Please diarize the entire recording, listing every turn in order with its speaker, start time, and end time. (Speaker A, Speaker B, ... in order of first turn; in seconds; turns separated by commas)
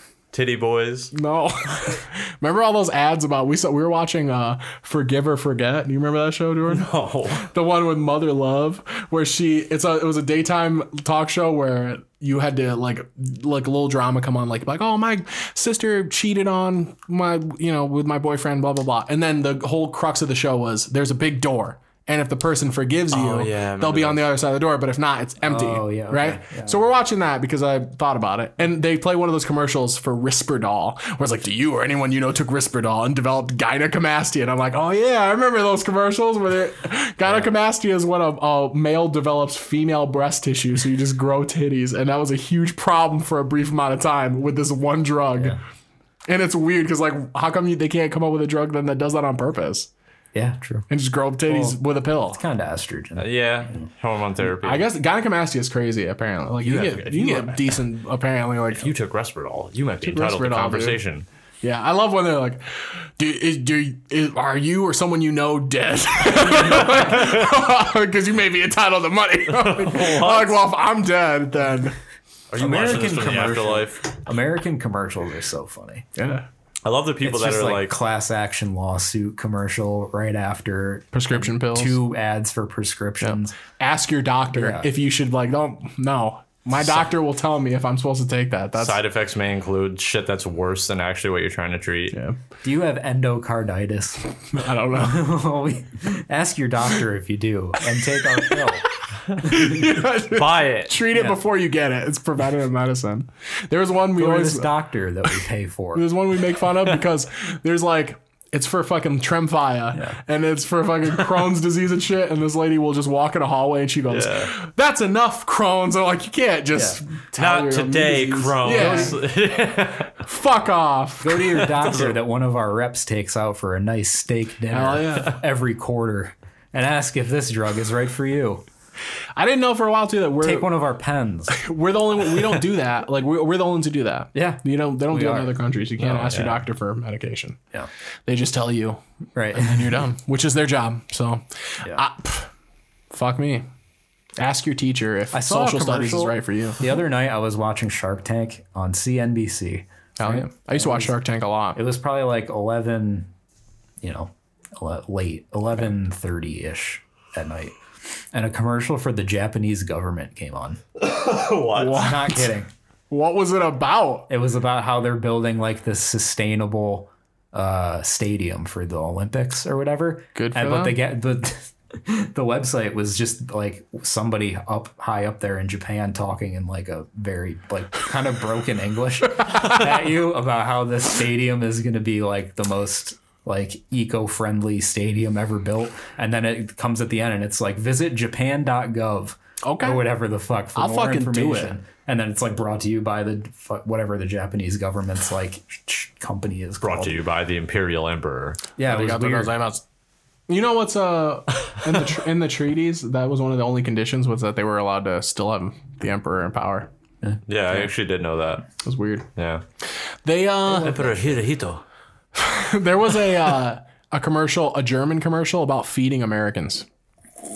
Speaker A: 0.3-1.1, Speaker B: 1.1-45.6, Speaker A: 6.7-7.5, Speaker A: 23.1-24.2, Speaker C: 25.4-26.8, Speaker B: 46.3-49.9, Speaker C: 50.3-50.9, Speaker B: 50.9-52.4, Speaker C: 51.5-53.9, Speaker A: 53.2-54.9, Speaker B: 54.6-58.9, Speaker A: 56.6-57.6, Speaker A: 58.7-61.3, Speaker B: 60.0-61.0, Speaker B: 61.6-72.0, Speaker A: 66.4-67.5, Speaker A: 69.5-70.6, Speaker A: 72.5-74.0, Speaker C: 72.6-76.1, Speaker B: 76.2-76.5, Speaker A: 76.8-78.0, Speaker C: 77.2-83.5, Speaker B: 81.1-82.0, Speaker B: 83.2-89.0, Speaker C: 84.5-84.9, Speaker A: 88.8-92.2, Speaker B: 92.1-92.4, Speaker C: 92.6-94.3, Speaker B: 94.5-95.3, Speaker C: 94.9-98.8, Speaker B: 99.4-104.7, Speaker A: 100.3-101.0, Speaker C: 101.1-101.4, Speaker C: 104.1-106.1, Speaker B: 105.9-119.2, Speaker C: 109.9-110.2, Speaker A: 114.1-114.5, Speaker C: 116.7-117.0, Speaker A: 117.3-120.2, Speaker C: 118.6-119.2, Speaker B: 120.2-121.7, Speaker C: 121.2-128.6, Speaker A: 121.5-122.2, Speaker B: 124.7-125.4, Speaker B: 129.3-130.7, Speaker C: 130.4-131.6, Speaker B: 131.5-137.6, Speaker C: 134.3-135.5, Speaker A: 136.0-136.6, Speaker B: 138.3-139.0, Speaker C: 139.3-140.0, Speaker B: 139.5-142.5, Speaker B: 143.1-143.6, Speaker B: 144.4-146.8, Speaker C: 145.3-151.1, Speaker B: 150.2-151.8, Speaker C: 151.7-153.3, Speaker C: 154.0-157.7, Speaker C: 158.3-160.8, Speaker A: 161.0-162.1, Speaker B: 161.7-162.5, Speaker C: 161.9-162.7, Speaker B: 163.1-164.3, Speaker C: 164.3-197.2, Speaker B: 170.3-171.0, Speaker B: 179.4-179.8, Speaker B: 189.6-190.1, Speaker B: 190.7-191.8, Speaker A: 196.8-198.6, Speaker C: 198.8-199.5, Speaker B: 198.9-199.8, Speaker B: 200.5-206.9, Speaker C: 207.2-207.9, Speaker A: 207.5-208.7, Speaker B: 208.8-209.3, Speaker A: 209.3-209.6, Speaker B: 210.2-211.0, Speaker A: 210.7-211.8, Speaker C: 210.7-211.4, Speaker B: 212.3-216.8